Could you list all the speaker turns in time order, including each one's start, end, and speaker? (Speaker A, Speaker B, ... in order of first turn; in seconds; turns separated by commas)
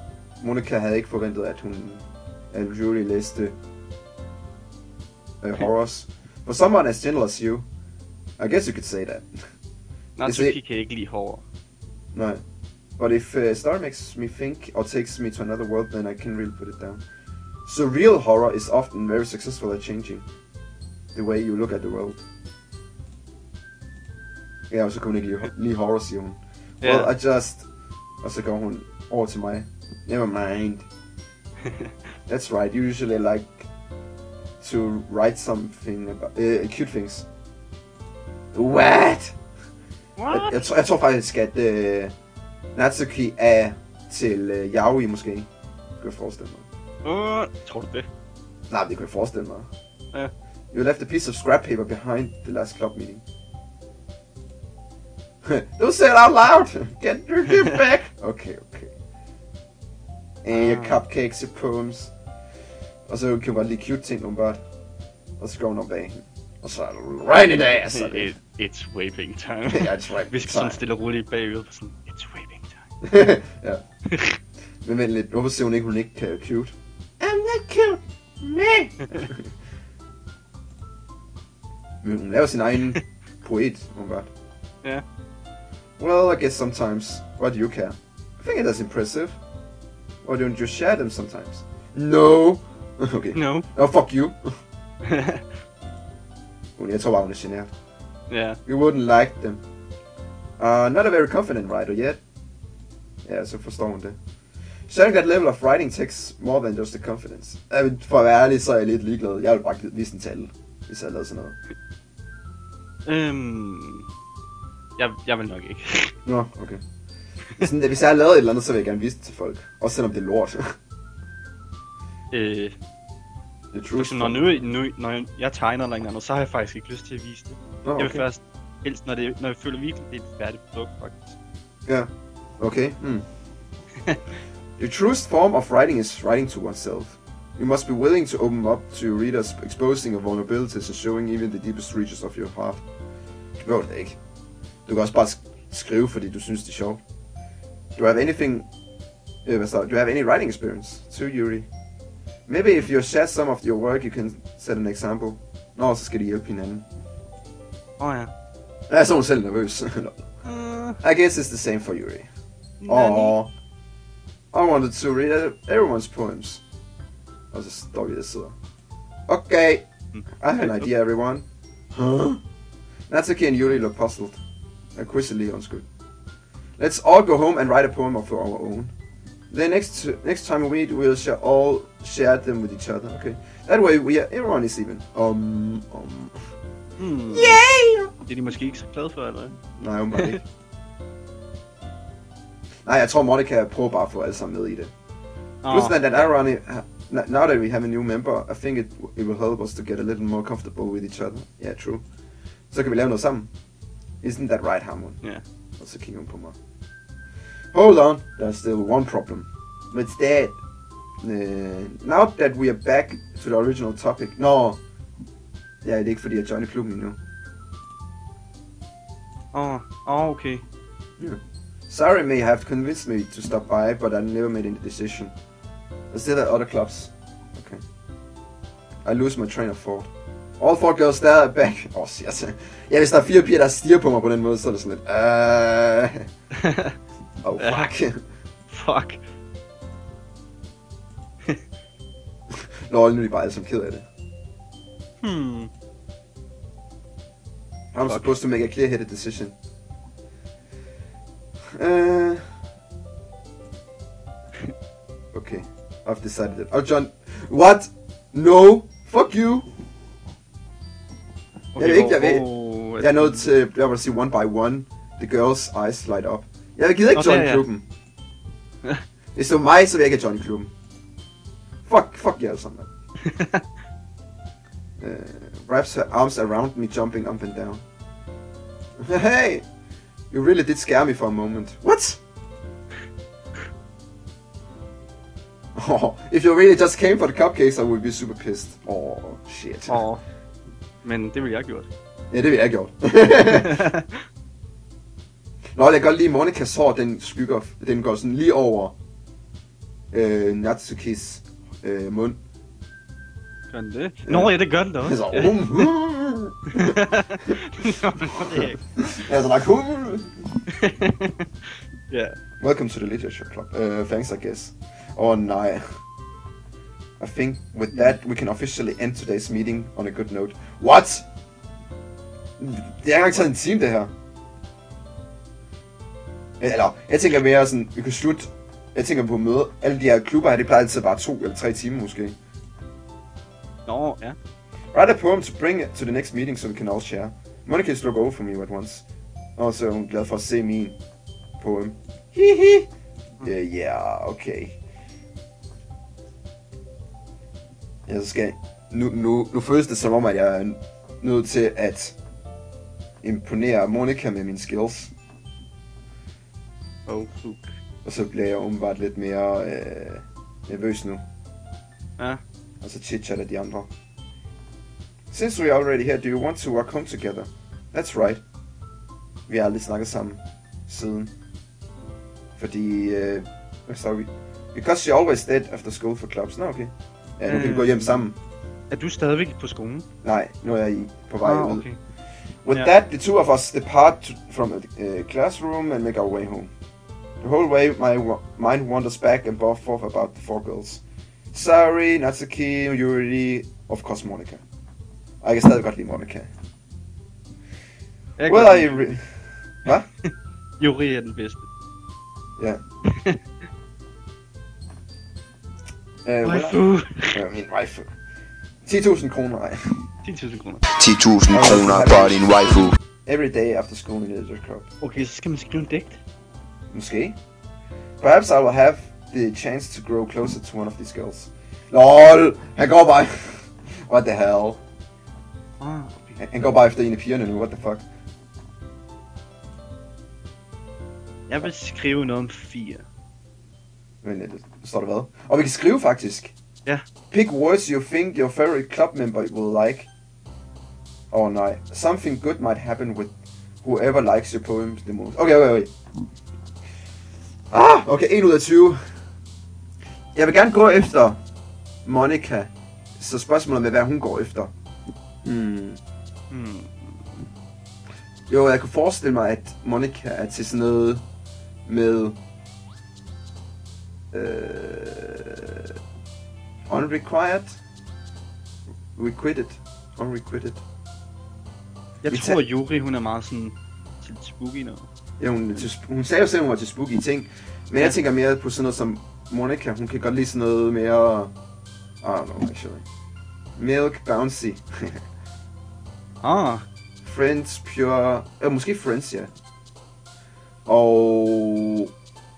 Speaker A: 0.4-3.5, Speaker A: 5.4-7.7, Speaker A: 8.4-9.3, Speaker B: 10.2-11.4, Speaker A: 10.2-10.6, Speaker A: 12.1-12.4, Speaker A: 13.0-17.0, Speaker A: 17.6-20.2, Speaker A: 21.1-22.2, Speaker A: 24.7-27.7, Speaker B: 26.8-27.1, Speaker A: 28.2-30.9, Speaker A: 32.3-33.7, Speaker A: 34.6-37.3, Speaker A: 38.5-39.4, Speaker B: 40.2-40.6, Speaker A: 40.3-42.1, Speaker A: 42.7-46.6, Speaker B: 47.0-48.1, Speaker A: 48.7-49.7, Speaker A: 50.7-53.2, Speaker A: 55.4-58.9, Speaker A: 60.4-62.1, Speaker B: 60.5-61.0, Speaker A: 63.1-64.6, Speaker A: 65.4-68.3, Speaker B: 67.8-72.8, Speaker A: 69.7-70.8, Speaker A: 73.0-73.8, Speaker B: 74.1-74.4, Speaker A: 74.8-79.5, Speaker A: 82.0-84.3, Speaker A: 86.0-89.4, Speaker A: 90.2-94.5, Speaker B: 93.3-93.7, Speaker B: 95.1-95.4, Speaker A: 96.8-97.7, Speaker B: 98.3-98.6, Speaker A: 98.7-99.6, Speaker A: 100.6-102.2, Speaker A: 103.2-104.2, Speaker A: 104.9-111.6, Speaker B: 113.0-114.1, Speaker B: 115.0-116.1, Speaker A: 116.2-116.8, Speaker A: 117.6-120.6, Speaker B: 122.3-122.8, Speaker A: 123.7-124.5, Speaker B: 124.0-131.4, Speaker A: 127.8-128.2, Speaker A: 131.9-133.2, Speaker B: 134.0-134.3, Speaker A: 134.8-142.8, Speaker A: 143.6-144.2, Speaker A: 144.9-147.0, Speaker A: 147.9-148.7, Speaker A: 149.4-151.7, Speaker A: 152.5-156.8, Speaker B: 158.0-158.3, Speaker A: 158.9-160.3, Speaker B: 160.4-161.0, Speaker A: 161.0-162.3, Speaker B: 162.8-163.3, Speaker A: 162.9-163.5, Speaker A: 164.5-166.6, Speaker A: 167.5-168.5, Speaker A: 169.3-169.9, Speaker B: 170.1-170.9, Speaker A: 170.4-172.4, Speaker A: 173.1-174.4, Speaker A: 174.9-175.8, Speaker A: 176.8-178.9, Speaker A: 179.5-186.4, Speaker B: 187.0-187.6, Speaker A: 187.3-188.1, Speaker B: 188.2-189.6, Speaker A: 189.8-190.4, Speaker A: 192.8-194.9, Speaker B: 195.6-196.0, Speaker A: 195.7-202.0, Speaker A: 202.7-203.5, Speaker A: 204.2-205.2, Speaker A: 205.8-206.6, Speaker A: 207.7-210.6, Speaker A: 211.2-214.8, Speaker A: 215.8-217.2, Speaker B: 219.5-220.6, Speaker A: 221.2-225.3, Speaker A: 226.1-227.8, Speaker A: 229.0-236.3, Speaker B: 236.6-236.9, Speaker A: 237.4-238.2, Speaker B: 237.6-237.9, Speaker B: 238.7-239.2, Speaker A: 242.5-244.1, Speaker B: 245.2-245.7, Speaker A: 247.9-249.5, Speaker B: 248.0-248.3, Speaker A: 251.8-252.5, Speaker A: 255.3-259.7, Speaker B: 261.7-263.5, Speaker A: 261.8-262.5, Speaker A: 263.0-267.8, Speaker B: 267.1-267.6, Speaker A: 269.3-270.7, Speaker A: 271.9-272.9, Speaker B: 273.2-273.6, Speaker A: 275.0-277.8, Speaker A: 279.0-279.6, Speaker A: 280.3-282.2, Speaker A: 285.8-290.0, Speaker B: 289.9-290.2, Speaker B: 291.0-291.9, Speaker A: 292.3-293.9, Speaker B: 293.5-294.2, Speaker A: 295.8-298.9, Speaker A: 300.1-302.4, Speaker B: 303.7-305.6, Speaker A: 304.3-307.5, Speaker B: 306.7-308.8, Speaker A: 308.4-310.6, Speaker B: 310.8-311.4, Speaker B: 312.1-312.4, Speaker A: 312.6-315.8, Speaker A: 317.2-321.2, Speaker A: 322.6-324.1, Speaker A: 326.6-332.4, Speaker B: 333.9-334.4, Speaker A: 334.9-339.0, Speaker A: 339.6-341.0, Speaker A: 341.6-342.9, Speaker A: 343.4-344.8, Speaker A: 348.1-352.1, Speaker A: 353.2-355.1, Speaker B: 357.1-357.8, Speaker A: 358.0-361.2, Speaker A: 362.8-363.9, Speaker A: 365.3-368.4, Speaker A: 369.5-371.3, Speaker A: 372.6-378.4, Speaker B: 377.4-378.2, Speaker B: 378.9-380.1, Speaker A: 380.2-381.9, Speaker B: 381.4-382.0, Speaker A: 382.6-386.7, Speaker A: 387.4-391.0, Speaker A: 391.5-394.6, Speaker A: 395.4-396.5, Speaker B: 398.4-399.1, Speaker A: 398.5-399.3, Speaker B: 400.2-401.7, Speaker A: 406.2-408.1, Speaker B: 406.4-407.4, Speaker A: 408.9-410.0, Speaker B: 410.2-410.8, Speaker C: 410.9-412.9, Speaker A: 411.5-414.9, Speaker B: 415.0-416.2, Speaker A: 416.9-417.4, Speaker A: 418.2-424.8, Speaker B: 425.8-426.4, Speaker A: 426.4-428.0, Speaker B: 431.5-433.1, Speaker A: 434.2-436.5, Speaker A: 437.3-440.1, Speaker A: 441.3-443.3, Speaker A: 443.8-445.9, Speaker A: 447.7-449.0, Speaker A: 450.3-451.4, Speaker A: 452.1-454.7, Speaker A: 455.4-456.0, Speaker B: 456.5-457.4, Speaker A: 458.5-461.2, Speaker A: 461.9-462.4, Speaker A: 464.3-465.9, Speaker A: 466.9-467.8, Speaker A: 469.1-470.8, Speaker B: 472.2-475.1, Speaker A: 472.3-472.6, Speaker A: 475.4-481.5, Speaker A: 482.2-483.0, Speaker A: 483.8-485.2, Speaker B: 486.4-486.9, Speaker A: 487.2-489.5, Speaker A: 490.9-492.1